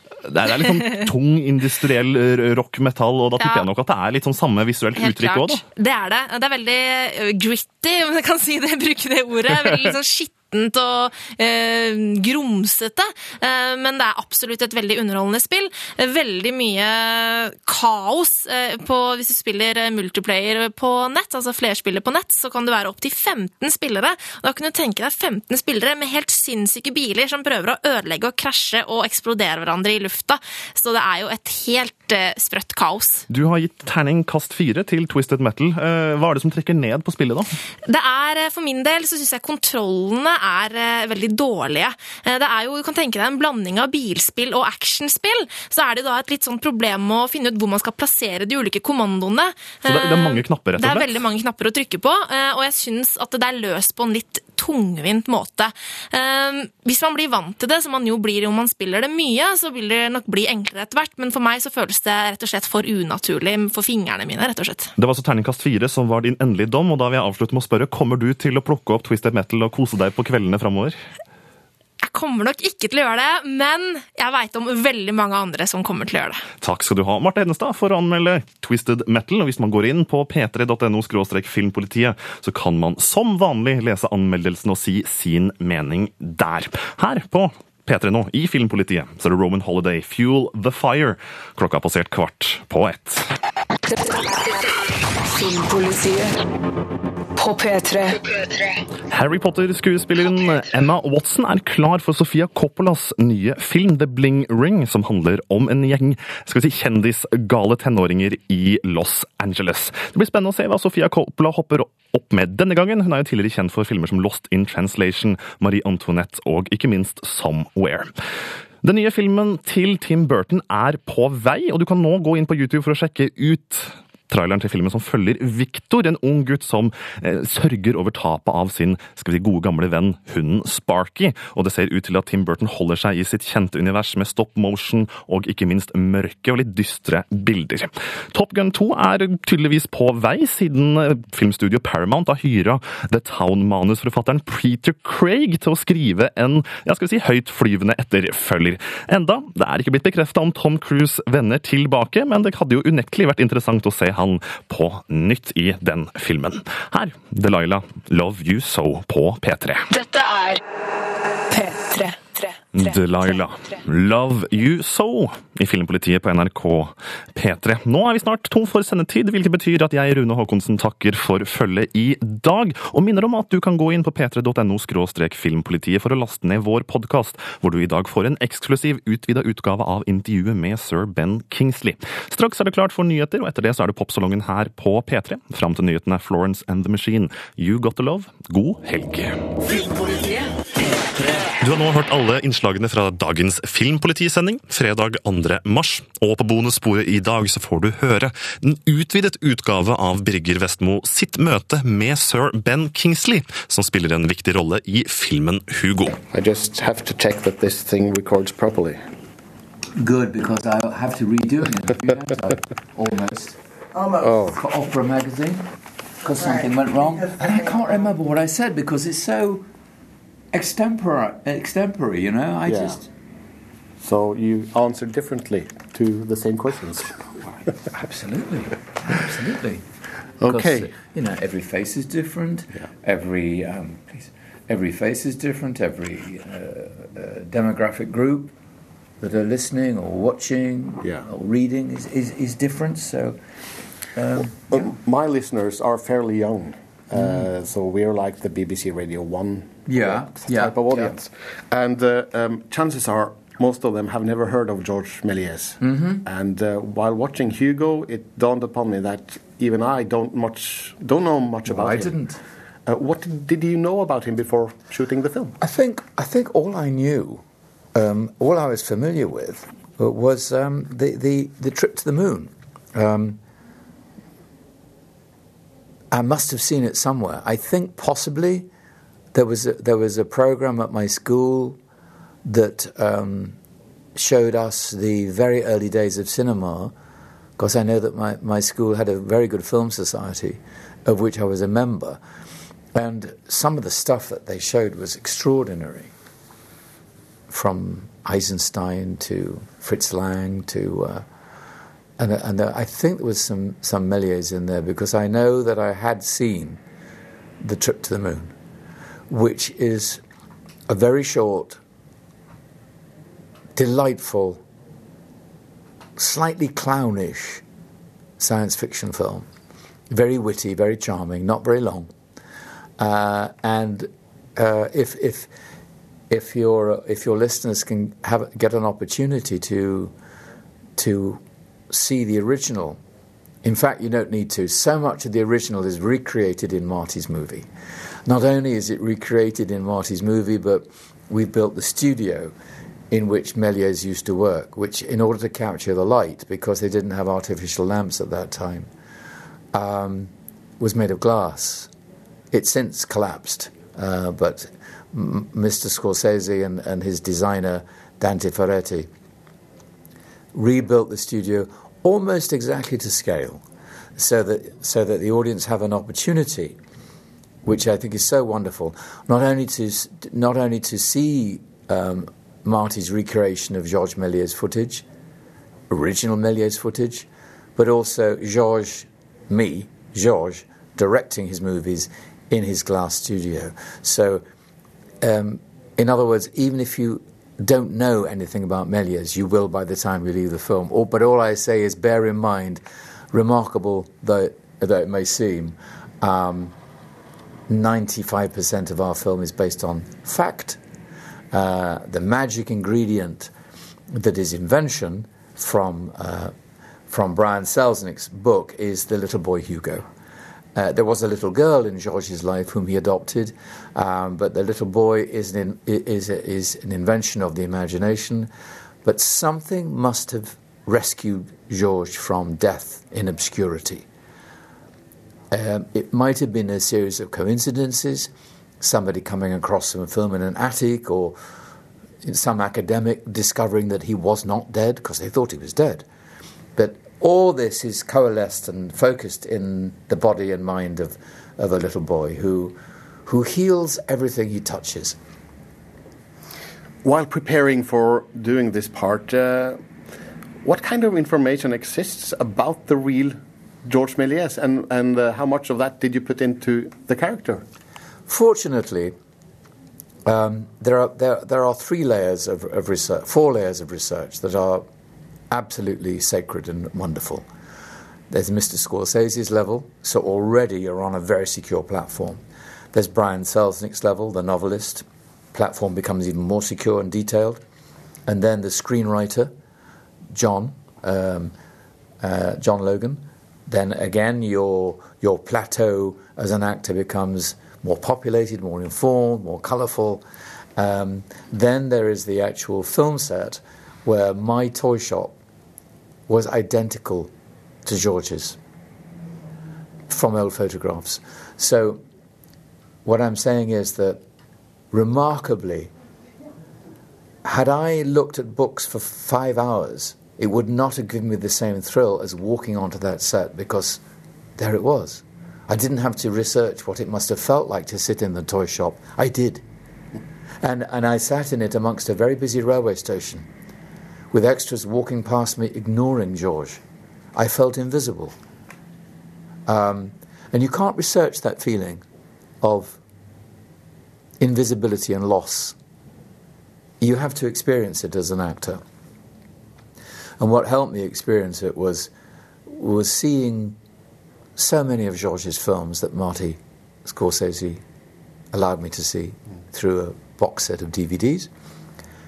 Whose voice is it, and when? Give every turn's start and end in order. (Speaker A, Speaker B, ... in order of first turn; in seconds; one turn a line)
Speaker A: 0.3-5.6
Speaker B: 0.5-1.1
Speaker B: 3.4-3.7
Speaker B: 5.0-33.2
Speaker A: 33.3-37.5
Speaker B: 37.9-64.9
Speaker A: 49.9-51.2
Speaker A: 65.0-71.0
Speaker B: 72.0-76.4
Speaker A: 76.6-93.3
Speaker C: 93.9-94.7
Speaker C: 95.2-96.4
Speaker C: 97.4-98.3
Speaker A: 99.1-118.1
Speaker A: 118.8-159.9
Speaker C: 159.9-160.6
Speaker C: 161.5-163.8
Speaker A: 162.7-189.4
Speaker C: 189.7-190.5
Speaker A: 191.6-206.2
Speaker D: 206.3-209.0
Speaker E: 210.0-213.6
Speaker D: 214.1-214.6
Speaker E: 214.2-215.7
Speaker E: 216.2-219.7
Speaker E: 220.5-223.1
Speaker D: 222.7-223.0
Speaker D: 224.0-227.5
Speaker E: 227.9-229.8
Speaker D: 230.4-230.9
Speaker E: 230.4-238.5
Speaker E: 239.2-243.4
Speaker D: 241.0-241.3
Speaker E: 244.2-244.9
Speaker D: 244.7-262.2
Speaker E: 247.1-247.5
Speaker E: 249.9-251.2
Speaker E: 255.8-256.2
Speaker E: 261.7-262.4
Speaker D: 262.9-265.6
Speaker E: 265.6-267.4
Speaker E: 267.9-273.4
Speaker E: 276.1-278.7
Speaker E: 279.3-281.8
Speaker E: 282.4-283.6
Speaker E: 284.2-286.9
Speaker E: 287.6-292.2
Speaker E: 292.9-296.1
Speaker E: 297.5-301.2
Speaker E: 302.2-306.8
Speaker E: 307.6-308.5
Speaker E: 309.3-310.2
Speaker E: 310.9-311.8
Speaker E: 313.8-314.6
Speaker E: 316.2-317.6
Speaker E: 318.4-319.5
Speaker E: 320.1-322.1
Speaker E: 323.0-325.5
Speaker E: 326.3-330.1
Speaker E: 331.0-333.0
Speaker E: 333.6-337.7
Speaker E: 338.2-342.5
Speaker E: 343.1-348.9
Speaker E: 349.7-351.9
Speaker E: 352.5-359.1
Speaker E: 360.5-363.6
Speaker E: 364.2-366.8
Speaker E: 367.6-375.1
Speaker E: 375.9-384.4
Speaker E: 385.2-396.8
Speaker E: 397.7-400.8
Speaker E: 401.5-403.5
Speaker E: 404.1-406.5
Speaker E: 407.1-410.1
Speaker E: 410.8-418.5
Speaker E: 419.0-424.1
Speaker E: 425.5-431.4
Speaker E: 432.2-436.1
Speaker E: 436.8-445.2
Speaker D: 447.0-449.8
Speaker D: 450.6-457.6
Speaker E: 458.3-459.1
Speaker E: 460.3-464.9
Speaker E: 465.5-467.5
Speaker E: 468.3-472.4
Speaker E: 472.9-477.6
Speaker E: 478.3-479.5
Speaker E: 480.3-481.5
Speaker E: 482.2-490.2
Speaker E: 490.8-495.4
Speaker E: 496.3-497.3
Speaker E: 497.9-498.6
Speaker E: 500.1-502.0
Speaker E: 503.1-504.2
Speaker E: 504.9-505.9
Speaker E: 507.4-514.0
Speaker E: 514.6-519.6
Speaker E: 520.6-523.5
Speaker E: 524.3-526.8
Speaker E: 527.4-528.4
Speaker E: 529.7-532.0
Speaker E: 532.6-533.0
Speaker E: 534.4-535.8
Speaker E: 537.0-538.8
Speaker E: 540.4-542.1
Speaker E: 542.7-543.8
Speaker E: 544.6-547.8
Speaker E: 548.5-551.5